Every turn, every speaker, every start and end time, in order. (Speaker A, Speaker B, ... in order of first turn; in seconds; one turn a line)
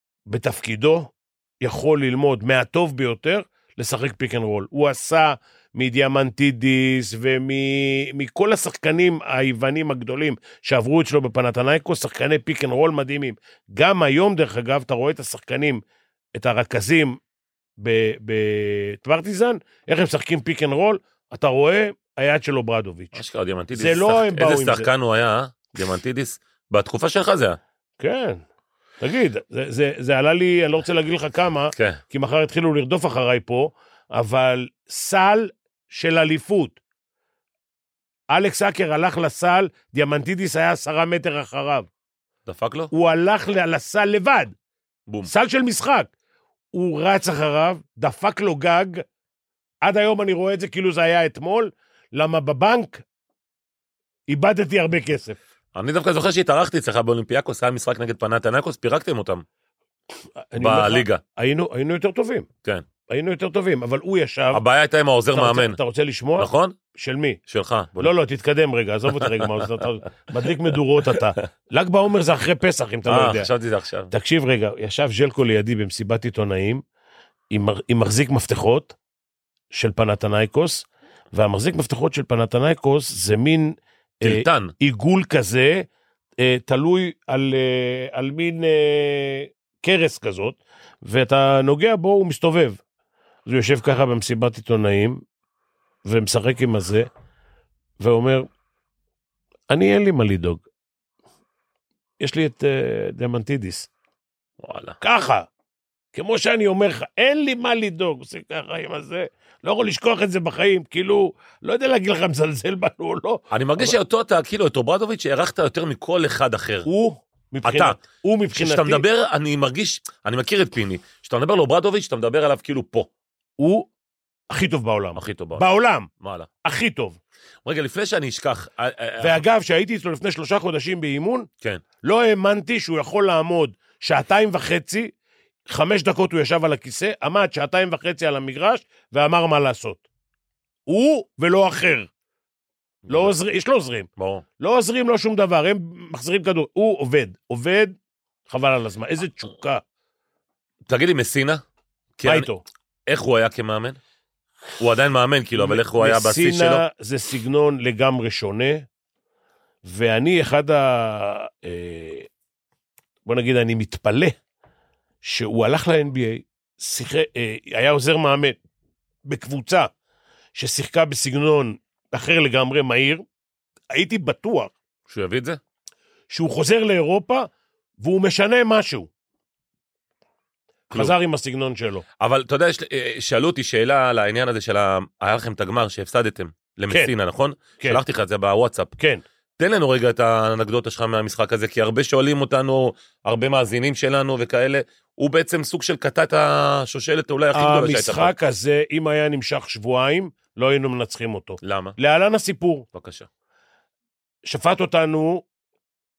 Speaker A: 0.3-15.8
Speaker A: 16.4-17.2
Speaker A: 17.8-23.2
Speaker B: 23.1-27.6
Speaker A: 23.7-24.9
Speaker A: 28.0-28.4
Speaker A: 29.0-36.8
Speaker A: 38.3-41.9
Speaker B: 42.5-42.9
Speaker A: 42.9-44.5
Speaker A: 45.3-46.1
Speaker A: 46.7-49.0
Speaker A: 49.8-53.0
Speaker A: 54.3-55.4
Speaker B: 55.8-59.5
Speaker A: 60.5-62.5
Speaker B: 60.6-61.2
Speaker A: 63.1-64.6
Speaker B: 64.5-65.8
Speaker A: 65.3-67.4
Speaker B: 66.4-66.8
Speaker B: 67.5-68.1
Speaker A: 68.0-73.5
Speaker B: 69.2-69.8
Speaker B: 73.1-74.1
Speaker A: 74.1-76.8
Speaker A: 77.5-79.0
Speaker A: 79.7-85.8
Speaker B: 84.2-84.7
Speaker A: 86.4-92.8
Speaker A: 93.5-95.2
Speaker A: 96.0-97.1
Speaker A: 98.0-98.5
Speaker A: 99.7-100.6
Speaker A: 102.2-103.9
Speaker B: 104.6-105.0
Speaker A: 105.0-105.5
Speaker A: 106.1-114.0
Speaker B: 113.5-116.9
Speaker A: 116.9-119.0
Speaker B: 117.6-118.0
Speaker B: 118.5-123.1
Speaker A: 123.6-123.9
Speaker A: 124.5-126.1
Speaker B: 125.2-125.7
Speaker B: 126.2-126.5
Speaker A: 126.7-127.2
Speaker B: 127.7-129.4
Speaker A: 129.2-131.5
Speaker A: 132.0-135.1
Speaker A: 135.7-140.0
Speaker A: 140.9-142.1
Speaker B: 143.1-143.3
Speaker A: 143.1-144.1
Speaker B: 144.2-144.4
Speaker A: 144.6-147.9
Speaker A: 148.5-149.8
Speaker B: 150.9-151.6
Speaker B: 152.2-152.5
Speaker A: 152.2-152.6
Speaker B: 153.1-154.0
Speaker B: 154.8-156.8
Speaker A: 155.6-158.8
Speaker A: 159.8-162.3
Speaker A: 163.3-164.3
Speaker A: 165.2-168.6
Speaker A: 169.3-169.9
Speaker A: 170.6-173.2
Speaker A: 173.9-174.7
Speaker B: 175.1-175.6
Speaker A: 176.3-177.5
Speaker A: 178.0-179.1
Speaker A: 180.9-182.1
Speaker B: 182.2-188.9
Speaker B: 189.6-198.3
Speaker A: 197.6-202.9
Speaker B: 201.6-202.0
Speaker B: 202.9-203.3
Speaker A: 204.5-205.4